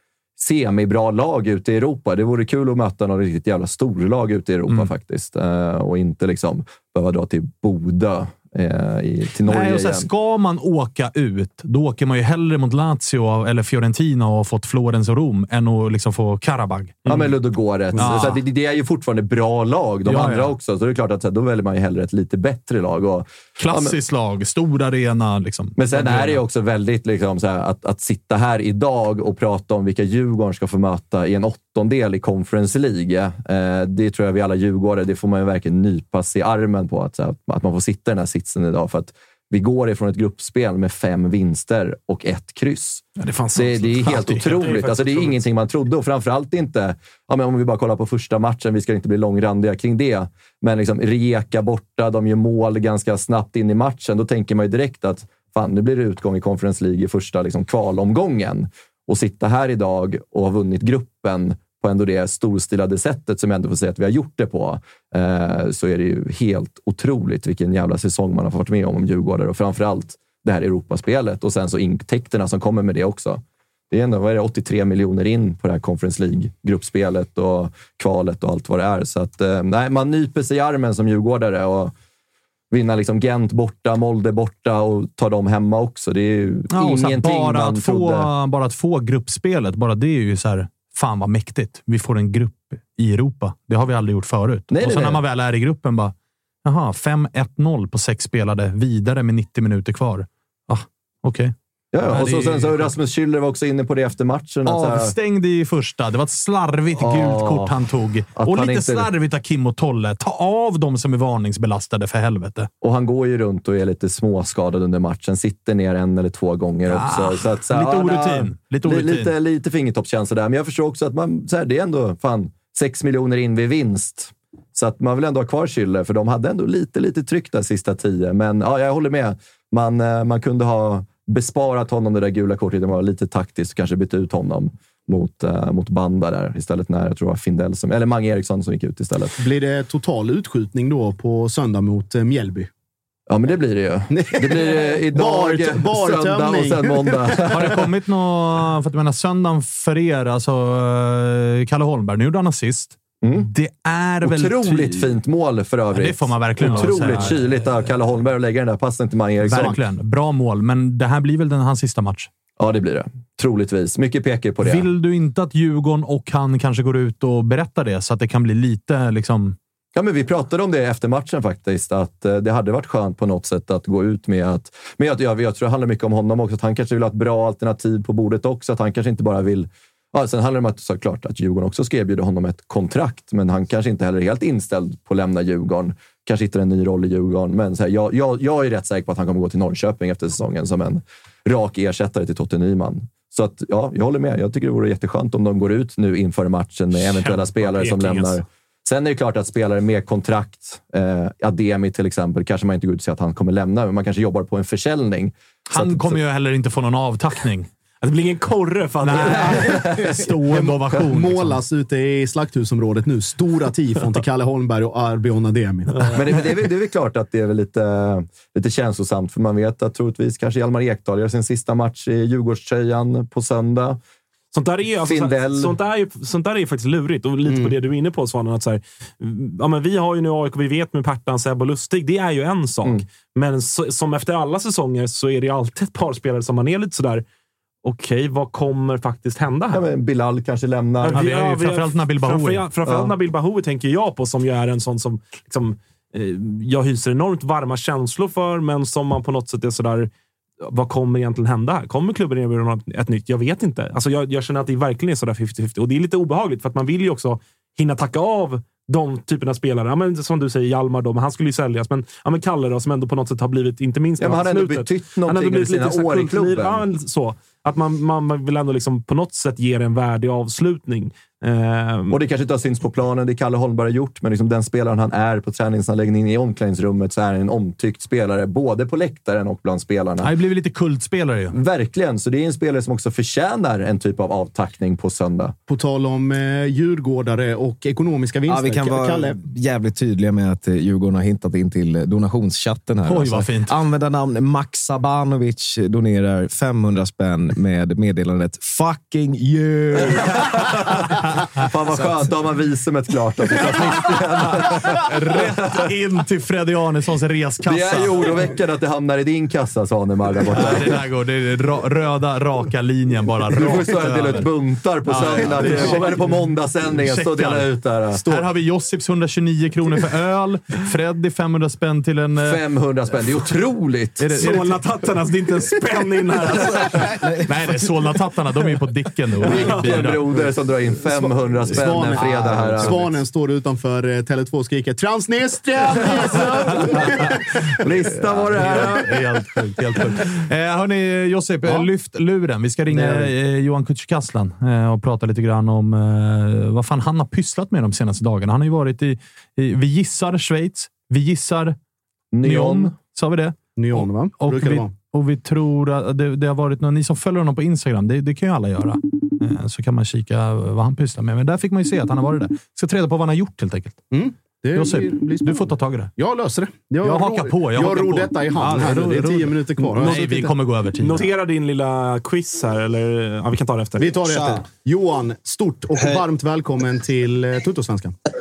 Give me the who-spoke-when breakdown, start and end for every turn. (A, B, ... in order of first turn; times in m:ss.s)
0:00.4-0:10.1 A
0:09.5-0:17.0 B
0:17.0-0:17.4 C
0:17.1-0:24.0 A
0:18.0-0:18.4 B
0:20.1-0:20.6 B
0:23.6-0:26.4 B
0:25.8-1:21.9 A
0:43.2-0:44.6 B
0:44.5-0:45.4 C
1:22.7-1:28.3 A
1:26.7-1:36.1 B
1:34.7-1:35.2 A
1:36.6-1:41.5 B
1:41.9-1:45.2 A
1:42.1-1:42.9 B
1:44.7-1:52.7 B
1:47.0-1:47.7 A
1:48.4-1:49.1 A
1:52.8-2:19.4 A
1:56.9-1:59.3 B
2:19.4-2:22.7 D
2:23.3-2:27.9 A
2:24.1-2:27.3 D
2:27.5-2:35.1 B
2:33.2-2:33.5 A
2:34.2-2:39.8 A
2:35.9-2:37.4 B
2:39.4-2:42.3 B
2:42.6-2:44.9 A
2:44.6-2:49.6 B
2:50.0-3:26.2 A
3:16.9-3:18.4 C
3:25.7-3:27.7 B
3:28.0-3:29.8 C
3:29.0-3:31.6 B
3:29.2-3:30.7 A
3:30.5-3:36.1 D
3:36.1-3:44.0 A
3:44.5-3:57.2 C
3:45.0-3:45.8 A
3:57.8-3:59.8 C
3:59.7-4:01.3 A
4:01.0-4:10.1 C
4:01.1-4:02.6 B
4:02.9-4:03.2 A
4:10.6-4:32.2 C
4:24.2-4:26.9 A
4:32.1-4:40.3 A
4:40.2-4:41.6 B
4:41.5-4:45.6 A
4:45.7-4:49.4 D
4:48.5-5:00.7 E
4:53.0-4:53.7 B
5:00.1-5:00.8 A
5:01.6-5:05.8 A
5:05.1-5:08.3 B
5:07.7-5:11.0 A
5:10.5-5:14.5 B
5:13.5-5:18.2 A
5:15.1-5:22.6 B
5:15.5-5:16.0 D
5:22.4-5:24.6 A
5:24.2-5:24.8 B
5:24.4-5:27.1 C
5:27.5-5:30.2 B
5:29.4-5:33.2 A
5:29.5-5:30.1 C
5:31.6-5:37.6 D
5:37.8-5:39.1 A
5:38.6-5:51.8 B
5:38.6-5:39.0 D
5:42.9-5:43.2 D
5:52.3-5:53.0 A
5:52.4-6:04.0 B
5:53.8-5:54.9 D
6:04.1-6:10.5 D
6:04.8-6:06.1 B
6:07.0-6:11.3 B
6:11.0-6:14.2 C
6:14.0-6:18.2 D